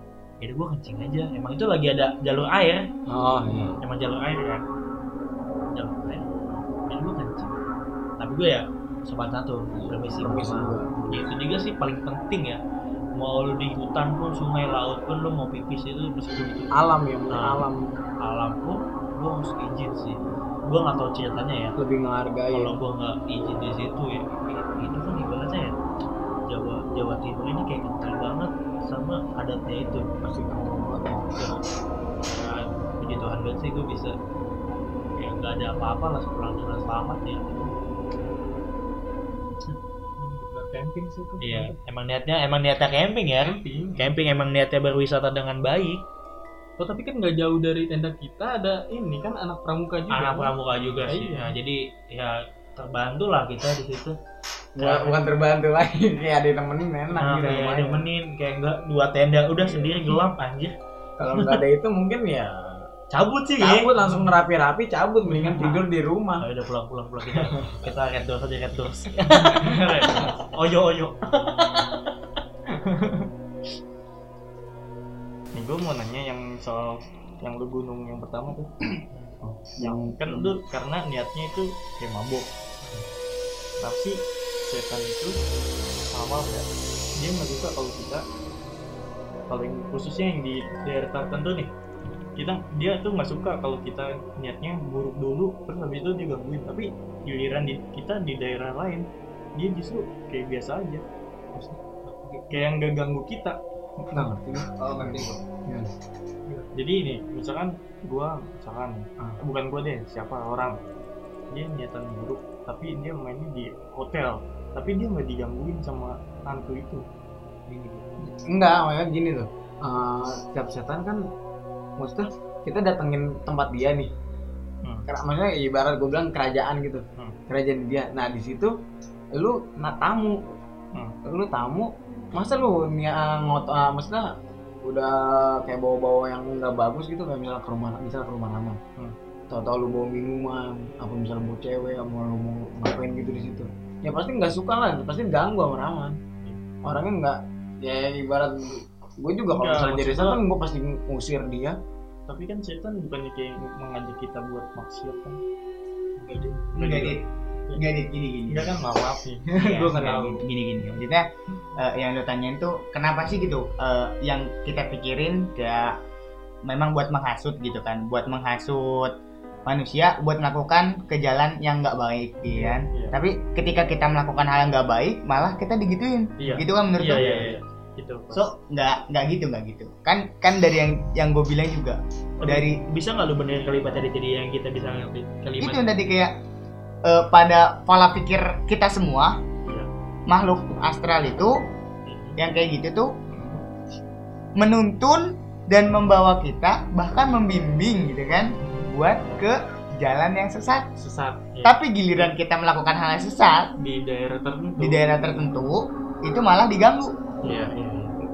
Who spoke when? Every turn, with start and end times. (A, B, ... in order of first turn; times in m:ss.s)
0:00.4-0:02.8 A
0:03.1-0:03.8 B
0:03.8-0:04.6 A
0:05.7-0:06.2 A
0:06.9-0:07.5 A
0:08.2-0:12.6 A
0:09.8-0:11.0 B
0:13.1-0:16.7 A
0:16.8-0:17.8 B
0:17.3-0:17.6 A
0:18.2-0:21.7 A
0:21.8-0:22.8 B
0:22.5-0:25.7 A
0:26.5-0:30.1 A
0:30.2-0:31.4 B
0:32.3-0:34.1 A
0:35.1-0:37.7 A
0:40.2-0:40.5 C
0:40.3-0:41.6 D
0:41.4-0:46.0 A
0:43.5-0:44.2 C
0:46.8-0:50.5 D
0:50.1-0:54.2 A
0:51.0-0:51.5 D
0:54.8-0:58.1 B
0:54.8-0:55.2 A
0:57.2-1:00.8 A
0:59.6-0:59.9 B
1:01.2-1:02.9 B
1:03.1-1:03.9 A
1:03.6-1:06.4 B
1:06.4-1:11.9 A
1:12.8-1:13.3 C
1:15.5-1:18.7 C
1:19.1-1:19.5 A
1:19.7-1:22.5 C
1:19.8-1:20.5 B
1:23.8-1:25.4 C
1:26.1-1:26.6 C
1:27.2-1:28.2 C
1:29.5-1:31.7 C
1:32.4-1:39.0 C
1:39.6-1:41.0 C
1:42.1-1:42.4 A
1:42.5-1:43.6 C
1:44.1-1:45.9 B
1:44.2-1:45.1 C
1:44.8-1:45.4 E
1:46.7-1:50.8 C
1:51.5-1:57.0 C
1:58.3-2:01.2 B
2:02.0-2:04.1 B
2:05.0-2:08.7 B
2:09.4-2:10.4 B
2:11.2-2:14.3 B
2:14.8-2:18.8 B
2:19.5-2:26.2 B
2:26.8-2:31.8 B
2:29.5-2:30.4 C
2:32.3-2:35.4 C
2:36.2-2:37.8 C
2:36.7-2:37.2 E
2:37.7-2:38.8 E
2:38.5-2:40.4 C
2:39.6-2:46.0 E
2:46.6-2:49.1 E
2:49.6-2:57.5 E
2:52.5-2:53.1 C
2:56.4-2:58.5 C
2:57.0-2:57.6 A
2:58.3-3:02.8 E
3:02.4-3:05.8 A
3:05.6-3:06.3 E
3:07.0-3:09.4 E
3:10.3-3:11.6 E
3:12.1-3:12.4 A
3:12.4-3:13.1 E
3:13.3-3:13.6 C
3:14.6-3:20.9 E
3:21.0-3:22.3 C
3:21.6-3:23.7 E
3:23.8-3:25.5 C
3:24.8-3:27.2 E
3:27.4-3:28.1 C
3:27.4-3:28.1 A